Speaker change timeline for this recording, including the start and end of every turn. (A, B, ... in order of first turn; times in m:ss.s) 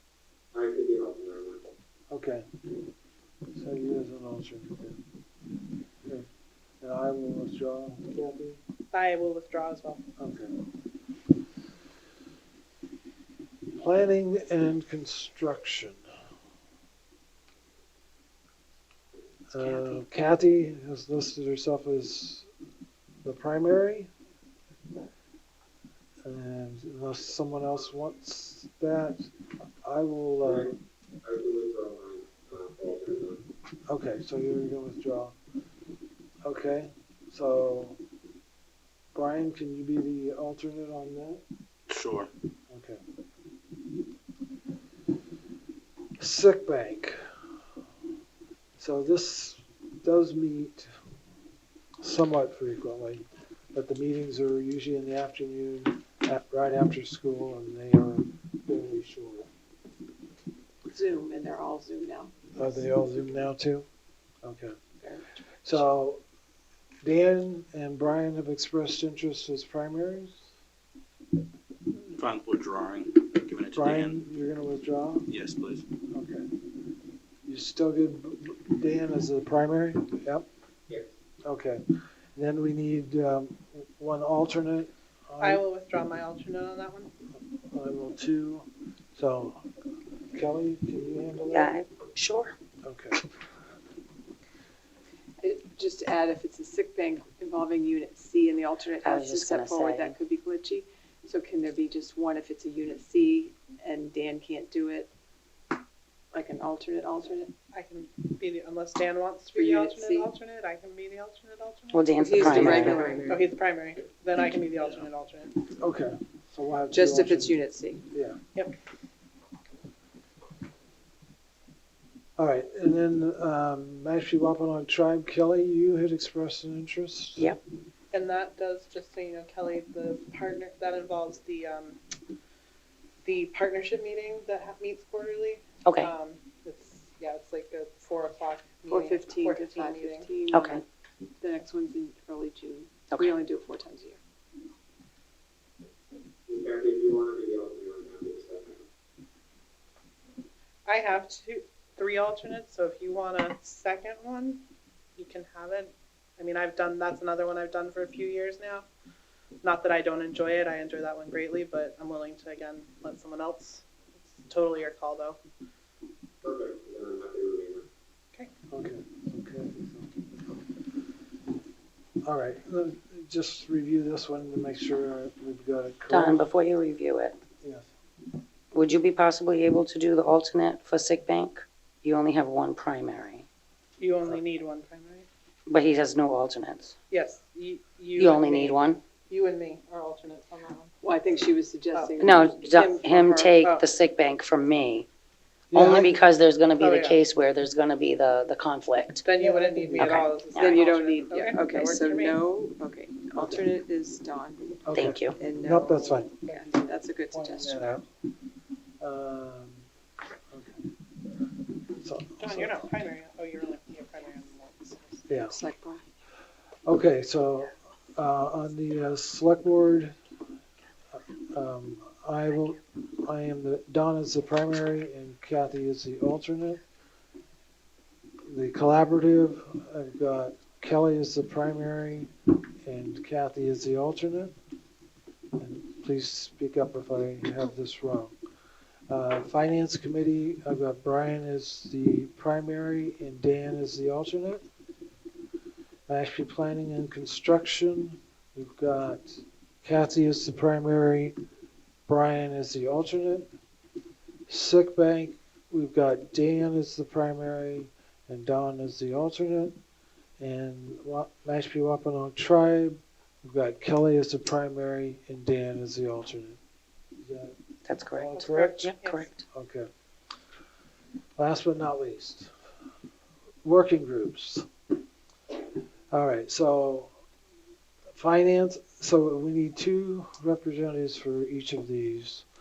0:00.5-0:01.6 A
0:02.1-0:02.4 B
0:03.5-0:05.0 B
0:06.8-0:08.6 B
0:08.9-0:10.0 C
0:10.2-0:10.6 B
0:13.8-0:16.0 B
0:19.5-0:22.5 B
0:19.6-0:20.2 D
0:23.2-0:24.1 B
0:26.2-0:29.3 B
0:29.8-0:30.7 B
0:30.5-0:33.4 A
0:33.9-0:35.4 B
0:36.4-0:38.0 B
0:39.1-0:41.4 B
0:41.9-0:42.3 E
0:42.7-0:43.0 B
0:46.2-0:47.2 B
0:48.8-0:50.9 B
0:52.0-0:59.5 B
1:00.9-1:02.8 F
1:02.6-1:03.9 B
1:04.4-1:04.8 B
1:05.0-1:05.9 F
1:05.6-1:06.2 B
1:07.0-1:10.5 B
1:12.1-1:14.2 E
1:13.7-1:15.3 B
1:15.3-1:15.8 E
1:16.1-1:16.5 B
1:17.4-1:20.4 B
1:21.4-1:21.8 B
1:22.3-1:25.6 B
1:25.4-1:27.1 C
1:27.7-1:29.6 B
1:30.3-1:31.8 B
1:31.5-1:32.5 D
1:32.8-1:33.2 B
1:35.4-1:45.1 F
1:39.0-1:40.2 D
1:46.3-1:47.5 F
1:47.7-1:55.5 C
1:49.5-1:50.3 F
1:51.9-1:53.2 D
1:52.2-1:53.4 F
1:52.4-1:52.7 B
1:55.8-1:57.6 B
1:56.9-1:58.0 F
1:58.1-1:58.4 B
2:02.4-2:07.5 B
2:08.1-2:12.0 C
2:13.2-2:20.3 C
2:15.8-2:16.1 D
2:18.9-2:20.8 F
2:20.5-2:20.8 D
2:21.4-2:24.2 F
2:26.5-2:28.8 A
2:30.8-2:34.6 C
2:35.2-2:38.8 C
2:39.6-2:43.8 C
2:44.4-2:45.4 C
2:46.4-2:47.8 A
2:48.7-2:50.2 B
2:52.2-2:56.4 B
2:56.1-2:57.4 D
2:57.6-2:57.9 B
2:58.7-3:03.4 D
3:04.0-3:05.2 C
3:05.7-3:06.9 D
3:07.1-3:10.9 C
3:08.2-3:09.0 D
3:11.0-3:13.6 F
3:12.2-3:15.1 D
3:15.7-3:16.2 B
3:15.7-3:19.2 D
3:16.8-3:17.2 C
3:19.2-3:22.4 C
3:19.4-3:20.2 B
3:20.0-3:20.8 D
3:20.6-3:24.8 F
3:23.4-3:23.7 B
3:24.8-3:26.7 B
3:24.9-3:25.4 D
3:25.3-3:27.9 F
3:27.3-3:28.0 B
3:29.0-3:29.8 B
3:30.5-3:30.9 B
3:32.0-3:32.9 B
3:32.4-3:35.3 C
3:35.3-3:35.6 B
3:35.5-3:36.0 F
3:36.8-3:40.1 B
3:41.1-3:46.8 B
3:48.4-3:52.3 B
3:52.8-3:54.5 B
3:55.6-3:58.3 B
3:59.1-4:04.6 B
4:06.1-4:11.4 B
4:12.1-4:13.5 B
4:14.5-4:19.8 B
4:20.4-4:26.6 B
4:27.2-4:27.6 B
4:27.9-4:29.4 D
4:28.1-4:28.9 B
4:28.3-4:29.3 C
4:29.5-4:29.9 B
4:31.4-4:32.5 B
4:33.6-4:34.7 B
4:36.1-4:37.1 B
4:38.1-4:42.4 B